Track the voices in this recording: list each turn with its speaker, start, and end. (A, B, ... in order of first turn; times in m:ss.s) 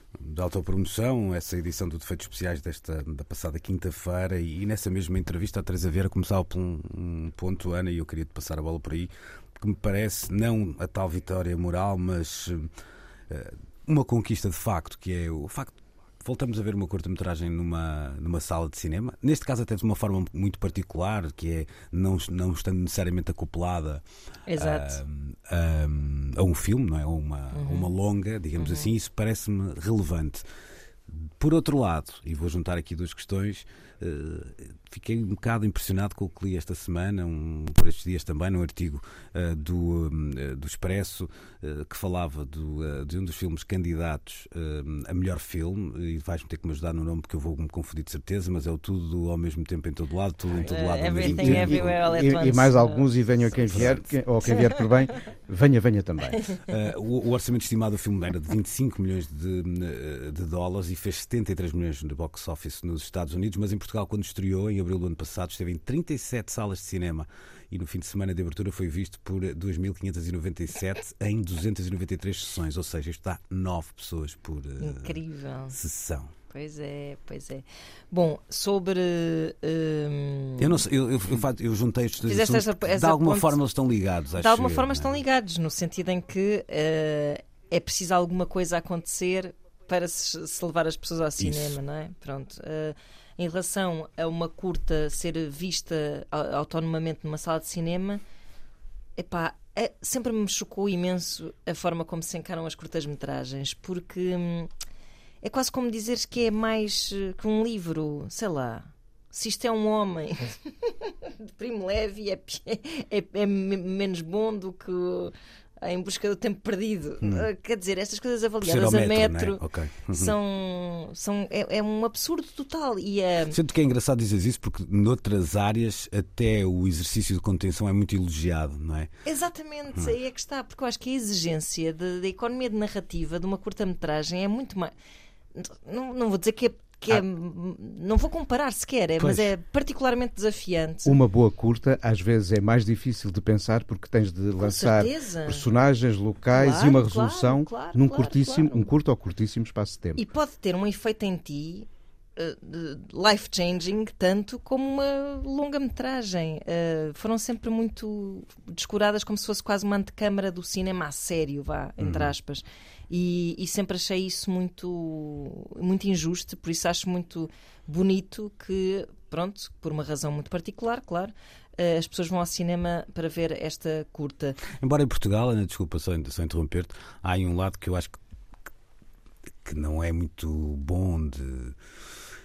0:00.2-0:12.7 A
0:13.3-0:24.0 A
0:24.5-0:25.0 B
0:24.6-0:30.4 A
0:27.5-0:27.9 B
0:28.6-0:28.9 B
0:31.1-0:52.0 A
0:50.7-0:53.1 B
0:51.2-0:56.5 C
0:53.7-0:54.0 A
0:56.7-1:15.2 A
1:14.8-1:15.8 B
1:15.7-1:16.3 A
1:16.5-1:20.8 B
1:20.6-1:25.2 A
1:22.3-1:23.6 B
1:24.4-1:38.2 B
1:31.4-1:31.8 A
1:39.2-1:44.7 B
1:45.4-1:59.6 B
1:57.2-1:57.5 A
1:58.6-2:00.3 A
2:00.1-2:03.6 B
2:03.5-2:09.1 A
2:09.3-2:14.9 B
2:15.6-2:21.2 B
2:19.2-2:19.5 A
2:21.0-2:30.2 C
2:24.6-2:25.7 B
2:26.5-2:28.9 B
2:30.2-2:54.6 B
2:42.0-2:42.3 A
2:54.8-2:58.2 A
2:59.6-3:01.8 A